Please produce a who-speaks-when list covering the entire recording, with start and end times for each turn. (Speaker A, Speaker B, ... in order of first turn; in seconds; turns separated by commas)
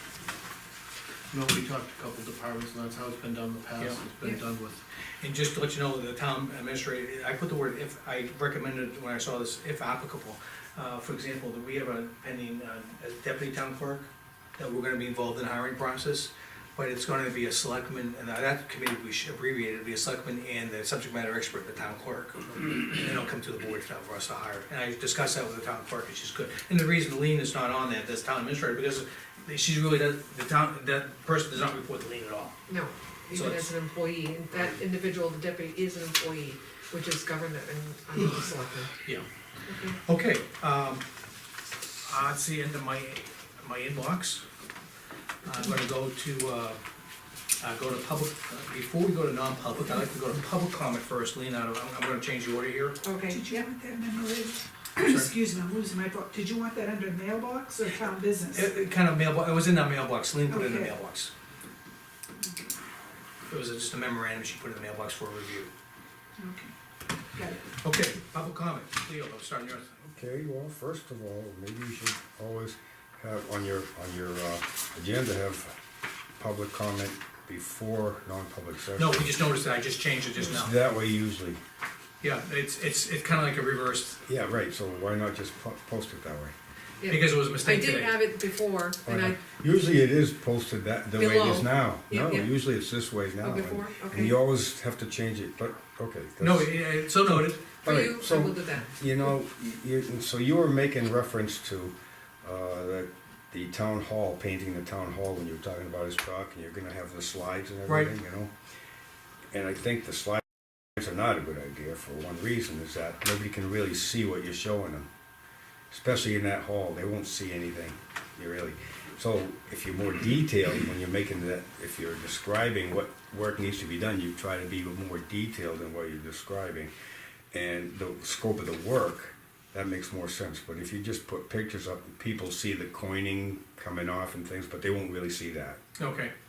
Speaker A: 1.3-4.8, Speaker B: 5.2-32.6, Speaker C: 32.7-38.9, Speaker B: 33.3-33.7, Speaker C: 39.7-40.0, Speaker B: 40.0-41.0, Speaker B: 42.0-44.4, Speaker B: 45.4-46.8, Speaker B: 47.6-53.0, Speaker C: 53.0-53.4, Speaker D: 53.3-58.7, Speaker B: 55.0-55.3, Speaker B: 58.5-61.3, Speaker D: 60.5-60.9, Speaker B: 63.5-65.7, Speaker D: 66.4-66.7, Speaker D: 67.3-67.6, Speaker B: 67.8-70.0, Speaker E: 70.0-75.7, Speaker E: 76.4-79.2, Speaker B: 79.0-80.8, Speaker E: 80.4-81.6, Speaker B: 82.2-84.2, Speaker E: 84.2-86.5, Speaker C: 87.0-89.4, Speaker B: 87.1-88.2, Speaker E: 89.0-108.5, Speaker C: 91.1-92.5, Speaker C: 93.4-94.3, Speaker B: 96.4-97.6, Speaker C: 97.8-99.0, Speaker B: 107.9-108.1, Speaker E: 109.5-115.1, Speaker E: 115.9-126.9, Speaker E: 127.5-135.8, Speaker B: 136.0-136.3